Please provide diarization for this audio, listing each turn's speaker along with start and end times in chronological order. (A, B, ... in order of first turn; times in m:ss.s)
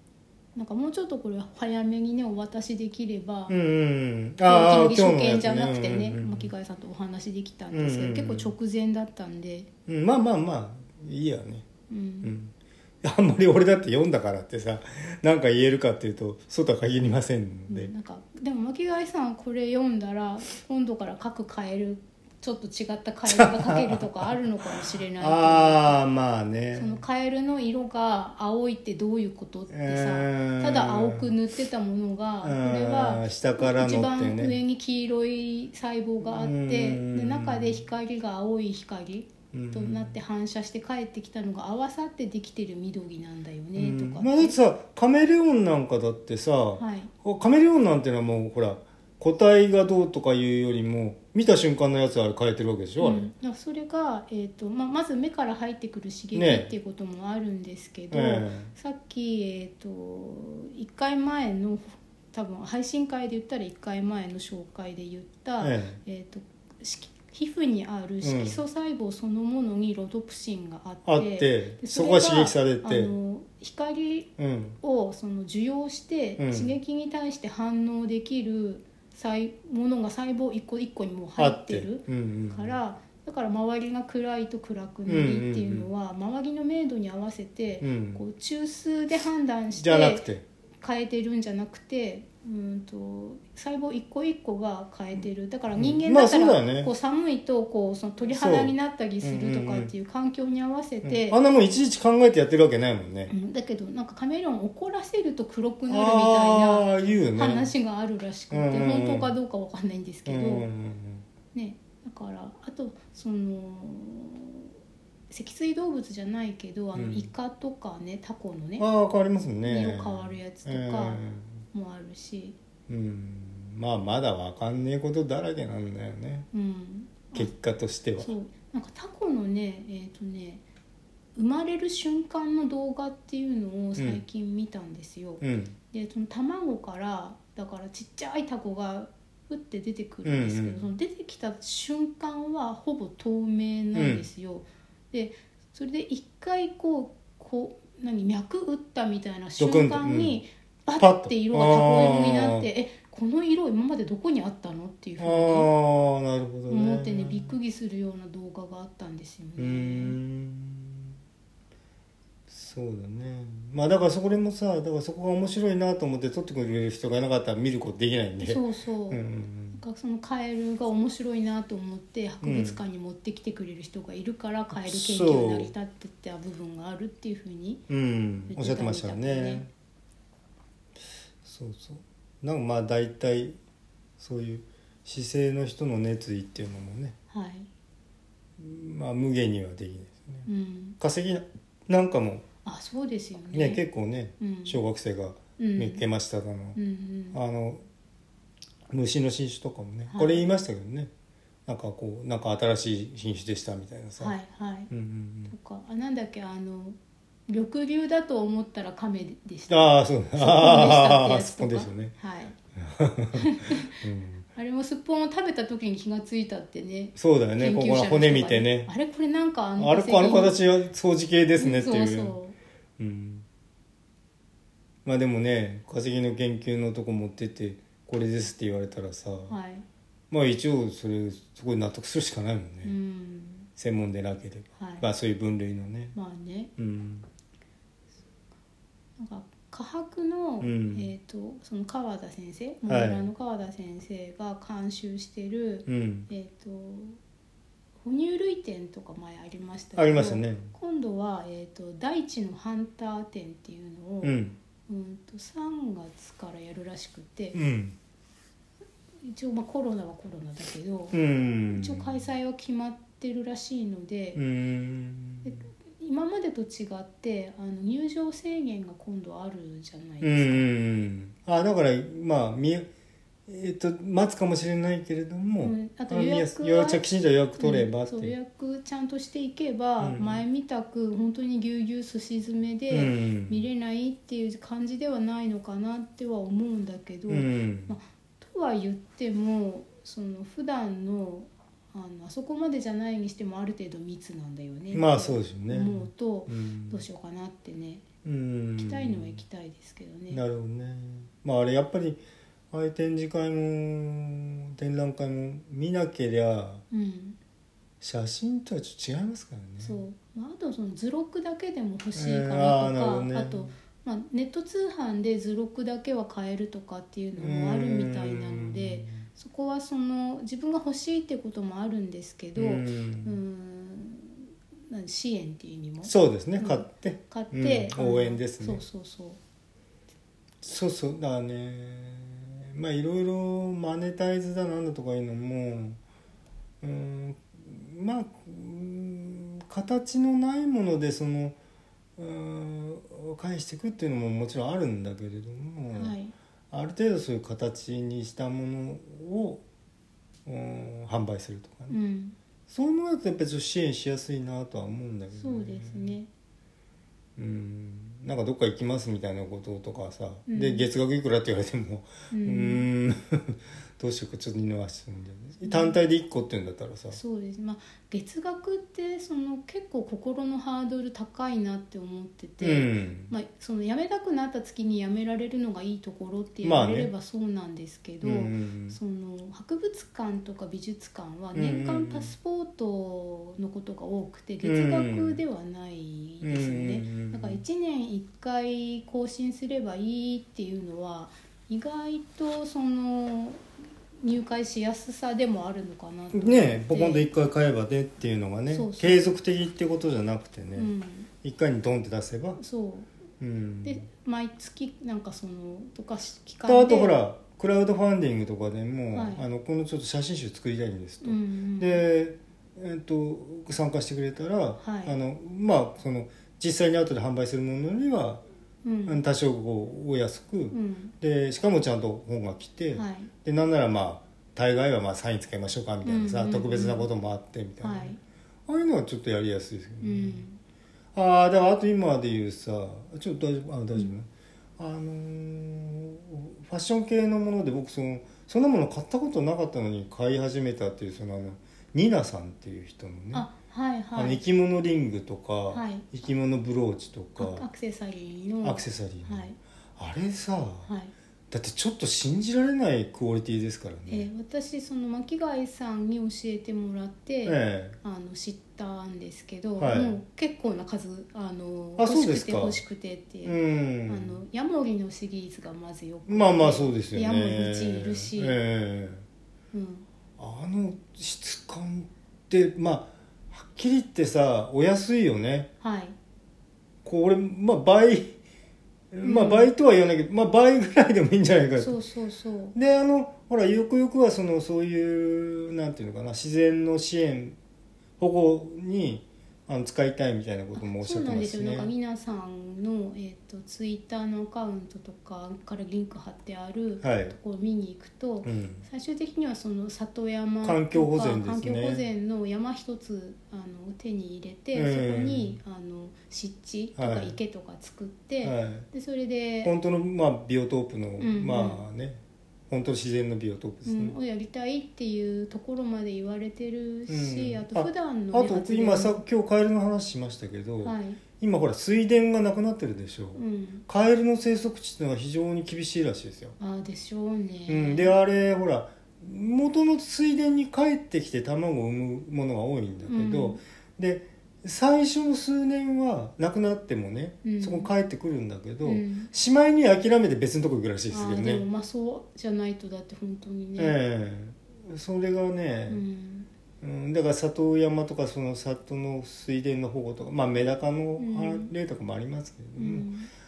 0:00.6-0:03.6 A
0:03.5-0:06.5 B
0:04.4-0:09.7 A
0:07.7-0:08.5 B
0:09.9-0:11.7 B
0:11.9-0:12.3 A
0:12.2-0:17.9 B
0:17.7-0:26.0 A
0:23.3-0:24.3 B
0:25.2-0:27.0 B
0:26.8-0:44.6 A
0:29.7-0:31.3 B
0:32.4-0:34.6 B
0:36.2-0:37.8 B
0:39.5-0:40.2 B
0:43.8-0:53.3 B
0:46.8-0:47.1 A
0:53.0-1:30.3 A
0:56.4-0:56.7 B
0:58.1-0:58.7 B
1:05.6-1:06.0 B
1:08.2-1:08.6 B
1:11.1-1:13.1 B
1:14.4-1:14.8 B
1:16.4-1:16.8 B
1:21.4-1:22.8 B
1:25.1-1:25.9 B
1:27.8-1:28.2 B
1:29.8-1:30.4 B
1:30.8-1:41.4 A
1:35.8-1:36.9 B
1:38.2-1:39.9 B
1:41.0-1:43.3 B
1:43.3-1:50.7 A
1:45.9-1:47.7 B
1:48.5-1:49.3 B
1:50.3-1:51.3 B
1:51.5-1:54.7 A
1:55.3-1:58.9 A
1:57.0-1:57.3 B
1:58.8-2:01.6 B
1:59.6-2:01.2 A
2:01.7-2:02.6 A
2:02.9-2:06.5 B
2:06.5-2:07.5 A
2:07.3-2:08.3 B
2:08.2-2:10.6 A
2:11.4-2:35.7 A
2:15.4-2:15.8 B
2:20.2-2:20.9 B
2:24.0-2:24.2 B
2:29.6-2:30.4 B
2:31.0-2:32.7 B
2:35.2-2:37.6 B
2:36.7-2:40.2 A
2:39.6-2:41.1 B
2:42.5-2:49.8 B
2:48.4-2:49.2 A
2:49.7-2:57.8 A
2:52.4-2:52.8 B
2:54.8-2:55.7 B
2:57.9-2:59.7 B
2:58.5-2:59.6 A
3:01.4-3:03.6 B
3:04.2-3:07.2 B
3:07.3-3:07.7 A
3:08.6-3:10.5 B
3:10.5-3:11.0 A
3:11.0-3:12.4 B
3:12.6-3:13.8 A
3:13.5-3:16.8 B
3:14.4-3:14.8 A
3:15.6-3:16.0 A
3:16.8-3:17.4 A
3:17.3-3:17.8 B
3:18.9-3:21.1 B
3:20.1-3:20.4 A
3:21.7-3:24.4 B
3:24.2-3:24.9 A
3:24.9-3:25.5 B
3:25.5-3:32.6 A
3:29.7-3:32.2 B
3:32.8-3:34.5 B
3:33.4-3:33.9 A
3:34.6-3:40.6 A
3:37.2-3:38.9 B
3:39.8-3:42.4 B
3:41.6-3:42.6 A
3:43.0-3:43.5 B
3:45.0-3:49.6 B
3:49.5-3:49.9 A
3:50.3-3:52.9 B
3:52.8-3:53.7 A
3:53.8-3:56.2 B
3:54.8-3:55.0 A
3:56.2-3:56.7 A
3:56.8-3:57.3 B
3:59.2-4:07.2 A
4:00.6-4:01.1 B
4:02.9-4:03.3 B
4:05.9-4:06.3 B
4:08.0-4:14.4 A
4:10.0-4:10.7 B
4:14.2-4:14.6 B
4:14.9-4:17.6 A
4:17.5-4:18.0 B
4:19.2-4:21.2 A
4:21.1-4:22.1 B
4:21.7-4:24.4 A
4:24.4-4:25.7 B
4:25.4-4:30.7 A
4:30.2-4:32.9 B
4:33.5-4:38.3 B
4:35.6-4:37.1 A
4:37.6-4:58.0 A
4:40.0-4:40.4 B
4:42.9-4:43.6 B
4:47.3-4:48.0 B
4:54.9-4:57.0 B
4:58.2-4:59.4 B
4:58.8-5:00.4 A
5:00.3-5:02.2 B
5:02.7-5:06.8 B
5:06.9-5:07.4 A
5:08.0-5:10.0 B
5:09.8-5:29.4 A
5:12.1-5:13.8 B
5:17.4-5:19.3 B
5:22.6-5:23.4 B
5:26.0-5:28.8 B
5:30.6-5:36.0 B
5:36.8-5:41.6 B
5:42.2-5:46.2 B
5:45.9-5:46.3 A
5:46.7-5:49.6 B
5:50.5-5:52.0 B
5:51.9-5:52.4 A
5:52.7-5:56.1 B
5:55.4-5:56.3 A
5:57.4-6:07.2 B
6:00.5-6:00.8 A
6:02.3-6:02.8 A
6:05.6-6:06.0 A
6:07.1-6:33.6 A
6:12.6-6:13.3 B
6:16.6-6:17.1 B
6:18.2-6:19.0 B
6:21.6-6:22.3 B
6:24.6-6:25.4 B
6:26.4-6:27.6 B
6:34.2-6:37.3 A
6:36.3-6:40.9 B
6:38.7-6:39.3 A
6:40.8-6:41.3 A
6:41.4-6:42.6 B
6:42.6-6:43.1 A
6:43.4-6:44.1 B
6:43.8-6:47.2 A
6:46.7-6:58.4 B
6:49.1-6:49.4 A
6:51.2-6:52.0 A
6:54.8-6:55.2 A
6:58.8-6:59.2 A
6:59.1-7:08.2 B
7:00.7-7:01.1 A
7:03.0-7:03.3 A
7:06.0-7:07.1 A
7:07.8-7:08.2 A
7:08.7-7:10.4 B
7:10.0-7:10.6 A
7:11.2-7:23.5 B
7:23.3-7:24.4 A
7:24.2-7:27.6 B
7:25.7-7:26.1 A
7:27.4-7:29.6 A
7:28.6-7:30.9 B
7:30.9-7:31.1 A
7:31.5-7:34.3 B
7:34.1-7:48.6 A
7:37.5-7:38.0 B
7:39.8-7:40.2 B
7:42.0-7:42.8 B
7:43.4-7:44.4 B
7:46.3-7:49.2 B
7:49.7-7:50.1 A
7:50.4-7:55.7 B
7:55.8-7:56.2 A
7:57.0-7:58.4 B
7:59.1-8:02.0 B
7:59.2-7:59.7 A
8:01.8-8:02.8 A
8:02.7-8:07.6 B
8:08.2-8:11.9 B
8:10.8-8:29.7 A
8:17.0-8:17.4 B
8:18.4-8:18.9 B
8:20.6-8:22.1 B
8:24.7-8:25.6 B
8:27.0-8:27.4 B
8:28.4-8:28.9 B
8:29.6-8:34.2 B
8:31.2-8:31.9 A
8:33.8-8:39.2 A
8:37.1-8:46.6 B
8:40.8-8:41.2 A
8:43.4-8:43.8 A
8:46.6-8:48.2 A
8:47.7-9:01.6 B
8:53.1-8:53.6 A
8:57.4-8:57.9 A
8:58.8-8:59.3 A
9:01.1-9:04.0 A
9:03.8-9:06.0 B
9:05.9-9:06.5 A
9:06.8-9:13.1 B
9:11.2-9:11.7 A
9:12.8-9:13.3 A